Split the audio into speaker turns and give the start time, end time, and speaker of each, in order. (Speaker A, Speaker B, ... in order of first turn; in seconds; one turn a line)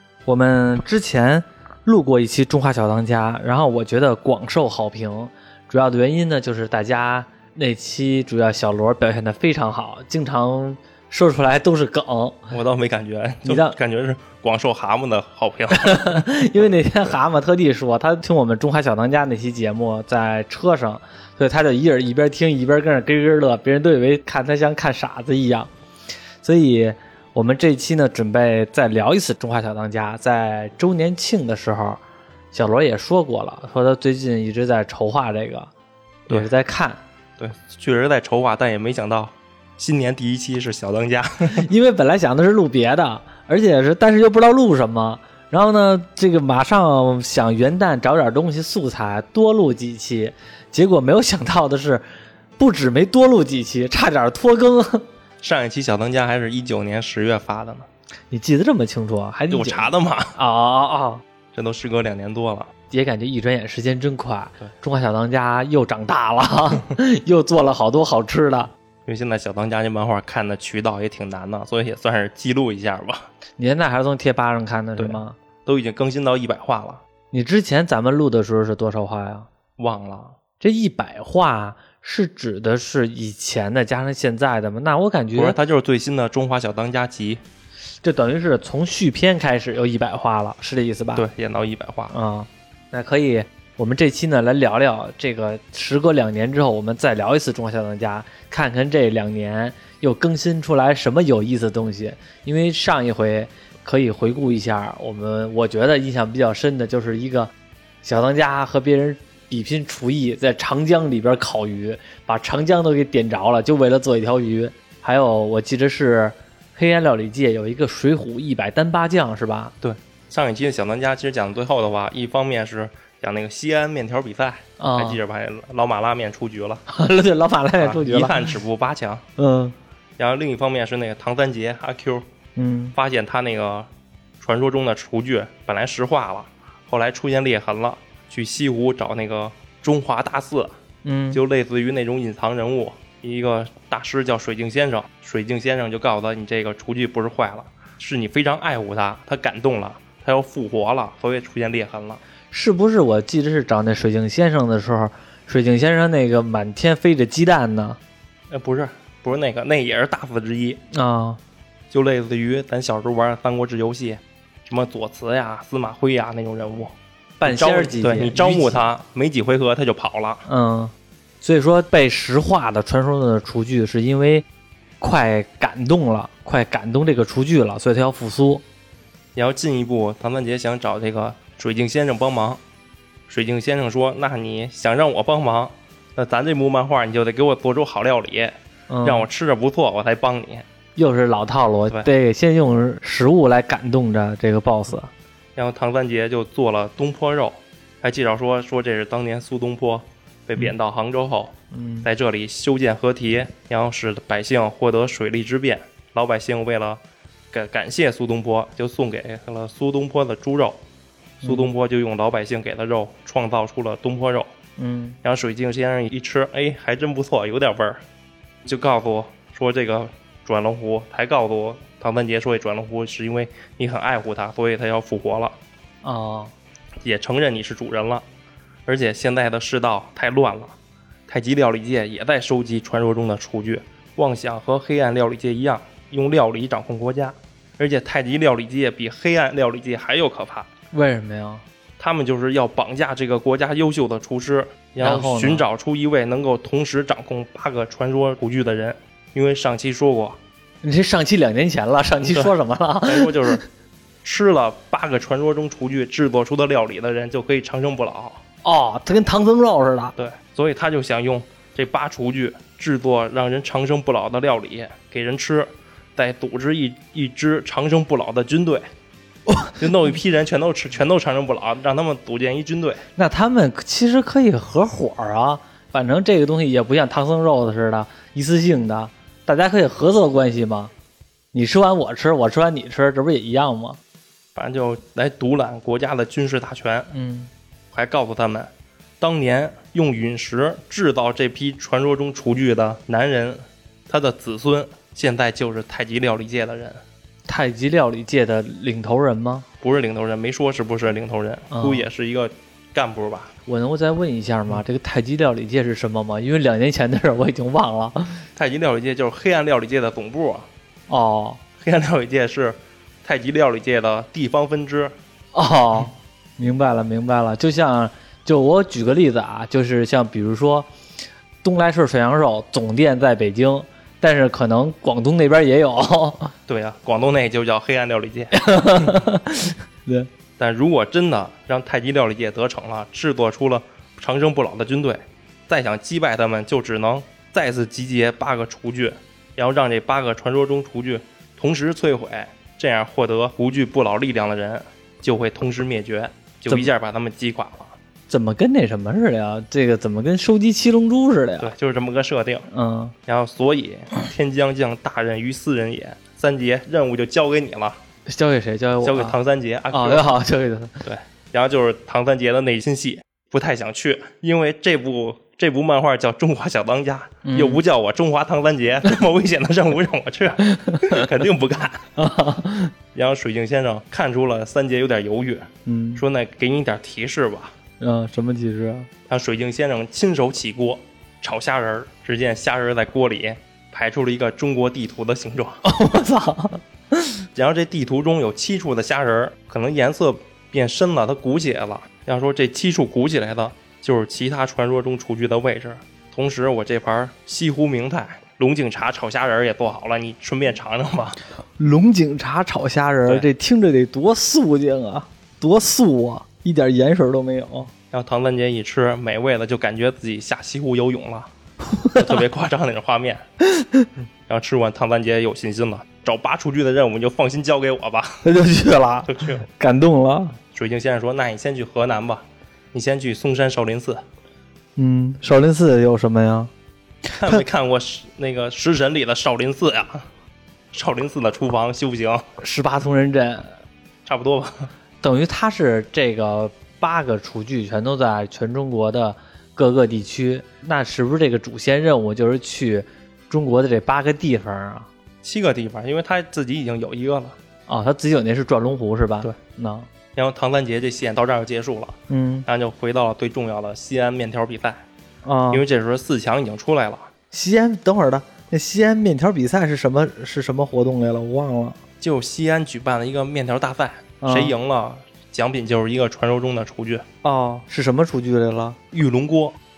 Speaker A: 0.2-12.5
Speaker B: 12.5-16.3
Speaker A: 13.4-13.8
Speaker A: 15.7-25.7
Speaker A: 26.4-32.0
Speaker A: 32.5-35.7
Speaker A: 36.3-37.0
Speaker B: 37.4-41.7
Speaker A: 41.5-52.0
Speaker A: 52.6-55.0
Speaker B: 55.4-57.9
Speaker A: 58.3-61.2
Speaker B: 59.5-60.3
Speaker B: 61.5-62.7
Speaker A: 62.9-68.7
Speaker B: 69.0-73.3
Speaker A: 73.6-75.3
Speaker B: 75.0-77.0
Speaker A: 77.3-79.5
Speaker B: 79.8-80.4
Speaker A: 80.6-85.6
Speaker B: 85.3-87.4
Speaker A: 88.0-91.3
Speaker B: 91.2-92.1
Speaker A: 92.1-107.5
Speaker A: 108.0-119.7
Speaker B: 119.8-126.8
Speaker A: 124.8-125.2
Speaker A: 126.9-128.5
Speaker B: 127.8-129.2
Speaker A: 129.4-129.7
Speaker B: 130.2-132.3
Speaker A: 132.6-132.9
Speaker B: 132.9-133.9
Speaker B: 134.4-140.8
Speaker A: 141.0-141.4
Speaker B: 141.3-152.2
Speaker A: 152.5-158.0
Speaker B: 158.5-160.8
Speaker A: 160.9-161.4
Speaker B: 161.9-170.4
Speaker A: 167.4-168.8
Speaker A: 170.5-174.4
Speaker A: 175.0-178.6
Speaker B: 179.3-182.6
Speaker B: 183.3-190.7
Speaker A: 188.9-189.3
Speaker A: 190.9-195.1
Speaker B: 195.6-210.8
Speaker A: 201.7-202.1
Speaker A: 211.4-211.7
Speaker B: 211.4-214.5
Speaker A: 214.8-215.2
Speaker B: 215.2-218.0
Speaker B: 218.6-225.6
Speaker A: 226.0-226.5
Speaker B: 227.0-228.2
Speaker B: 228.8-230.7
Speaker B: 231.3-240.7
Speaker A: 240.9-241.6
Speaker B: 242.0-250.4
Speaker A: 245.0-245.7
Speaker A: 250.8-253.6
Speaker B: 253.0-253.6
Speaker B: 254.2-258.4
Speaker A: 258.6-260.1
Speaker B: 260.1-268.9
Speaker A: 269.5-269.8
Speaker B: 269.8-273.0
Speaker A: 273.2-280.9
Speaker A: 281.5-284.0
Speaker B: 284.5-287.1
Speaker A: 287.1-287.5
Speaker B: 287.9-297.0
Speaker A: 297.5-299.6
Speaker B: 299.8-303.5
Speaker A: 301.7-302.1
Speaker A: 303.7-308.4
Speaker B: 308.6-310.7
Speaker A: 311.1-311.6
Speaker B: 311.8-315.1
Speaker A: 315.5-320.9
Speaker A: 321.6-326.5
Speaker B: 326.7-329.1
Speaker A: 328.5-330.3
Speaker B: 330.6-348.0
Speaker A: 348.3-351.7
Speaker B: 351.6-352.7
Speaker A: 352.7-353.1
Speaker B: 353.3-358.0
Speaker A: 358.2-359.4
Speaker B: 359.0-360.4
Speaker A: 359.9-361.0
Speaker B: 361.0-372.0
Speaker A: 367.4-367.8
Speaker A: 370.6-371.3
Speaker A: 372.1-372.9
Speaker B: 373.1-377.8
Speaker A: 375.9-376.2
Speaker A: 378.0-379.1
Speaker B: 379.3-385.8
Speaker A: 385.8-387.4
Speaker B: 387.5-401.4
Speaker A: 401.8-407.9
Speaker B: 408.1-411.5
Speaker A: 411.9-412.3
Speaker B: 412.1-413.4
Speaker A: 413.7-414.1
Speaker B: 414.5-418.4
Speaker A: 418.4-420.6
Speaker B: 419.2-419.6
Speaker B: 420.7-424.2
Speaker A: 425.0-426.7
Speaker B: 427.3-430.3
Speaker B: 430.9-432.4
Speaker A: 432.6-433.7
Speaker B: 434.2-434.9
Speaker A: 435.2-445.1
Speaker B: 445.4-447.6
Speaker A: 447.9-450.1
Speaker B: 450.3-455.0
Speaker A: 452.3-452.7
Speaker A: 455.4-455.8
Speaker B: 455.7-457.3
Speaker A: 457.5-462.0
Speaker B: 462.2-467.2
Speaker A: 464.4-464.7
Speaker A: 467.4-469.0
Speaker B: 469.1-469.8